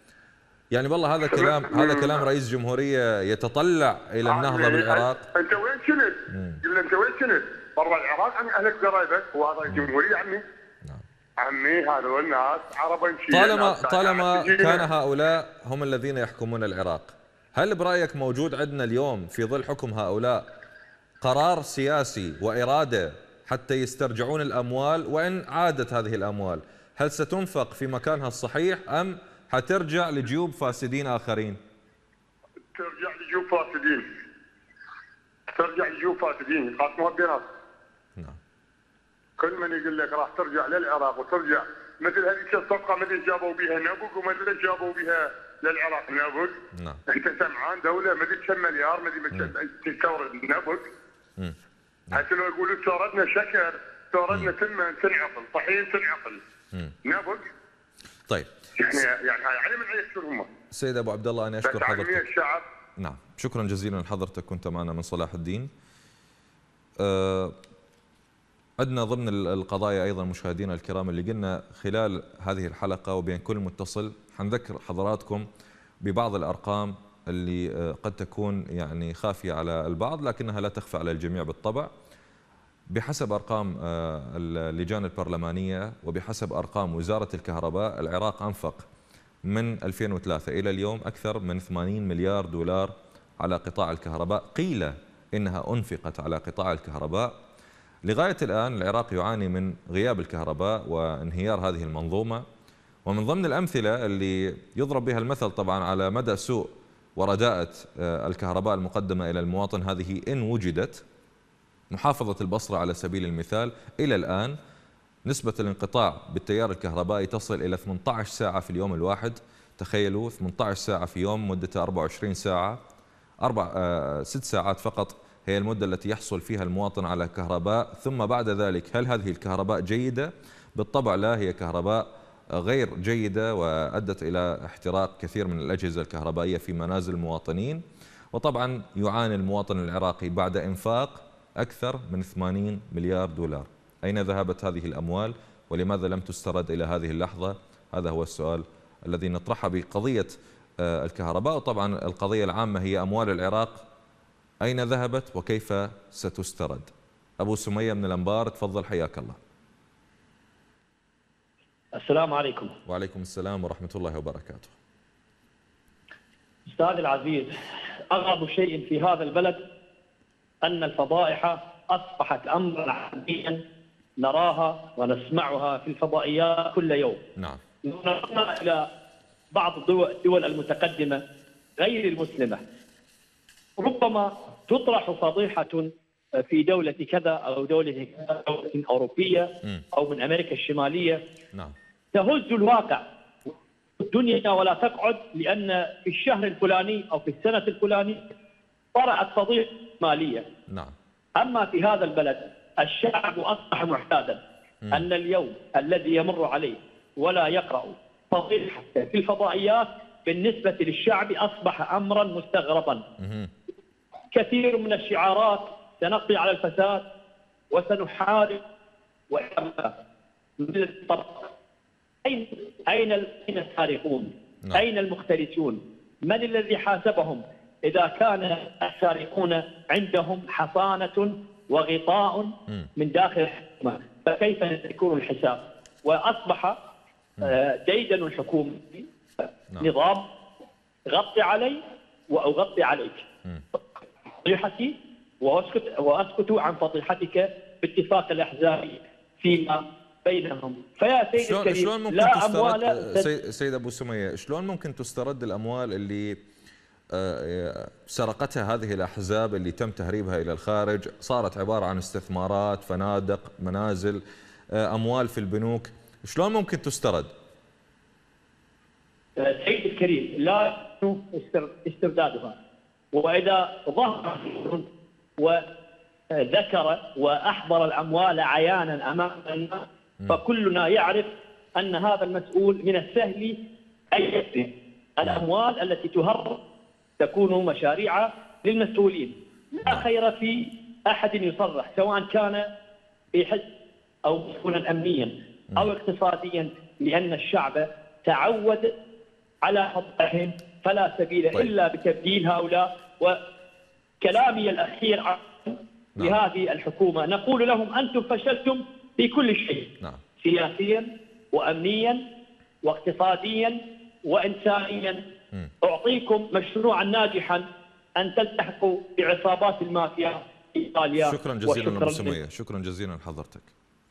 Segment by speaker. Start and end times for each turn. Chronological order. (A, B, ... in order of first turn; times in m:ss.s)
0:00.7-0:05.2 A
0:01.2-0:02.2 B
0:04.2-0:10.4 B
0:06.3-0:06.6 A
0:11.4-0:14.9 B
0:13.3-0:20.5 A
0:21.2-0:31.6 A
0:32.8-0:34.1 B
0:35.6-0:37.5 B
0:39.4-0:46.6 B
0:46.8-0:47.0 A
0:47.1-0:50.9 B
0:52.1-0:56.4 B
0:57.0-0:57.5 B
0:58.8-1:00.5 B
1:00.7-1:02.2 A
1:01.6-1:02.6 B
1:03.0-1:05.7 A
1:07.0-1:07.6 A
1:08.8-1:15.5 A
1:16.0-1:21.9 A
1:22.9-1:28.8 A
1:29.5-1:37.3 A
1:38.1-1:42.4 A
1:43.1-1:51.0 A
1:51.9-1:54.6 A
1:55.3-2:02.8 A
2:03.4-2:17.8 A
2:18.3-2:33.8 A
2:34.6-2:39.4 A
2:42.0-2:42.8 C
2:42.9-2:44.7 A
2:46.7-2:47.5 C
2:48.1-2:49.6 C
2:50.6-2:53.6 C
2:54.2-2:57.2 C
2:57.8-2:58.9 C
2:59.5-3:01.2 C
3:01.8-3:02.6 C
3:03.8-3:11.2 C
3:12.1-3:18.3 C
3:19.0-3:20.5 C
3:21.4-3:24.4 C
3:24.9-3:33.0 C
3:33.2-3:33.5 A
3:34.3-3:37.0 C
3:37.7-3:38.6 C
3:39.3-3:39.9 C
3:40.6-3:41.5 C
3:42.2-3:56.8 C
3:57.4-4:00.3 C
4:01.1-4:03.2 C
4:04.4-4:13.3 C
4:11.4-4:16.4 A
4:17.1-4:24.2 A
4:24.8-4:27.3 A
4:29.4-4:32.6 C
4:33.1-4:34.9 C
4:36.4-4:43.6 C
4:44.1-4:46.6 C
4:47.2-4:52.7 C
4:53.3-4:53.7 C
4:54.2-4:58.9 C
4:59.6-5:03.4 C
5:04.2-5:12.2 C
5:12.8-5:15.2 C
5:15.8-5:17.6 C
5:18.2-5:22.4 C
5:21.2-5:23.7 A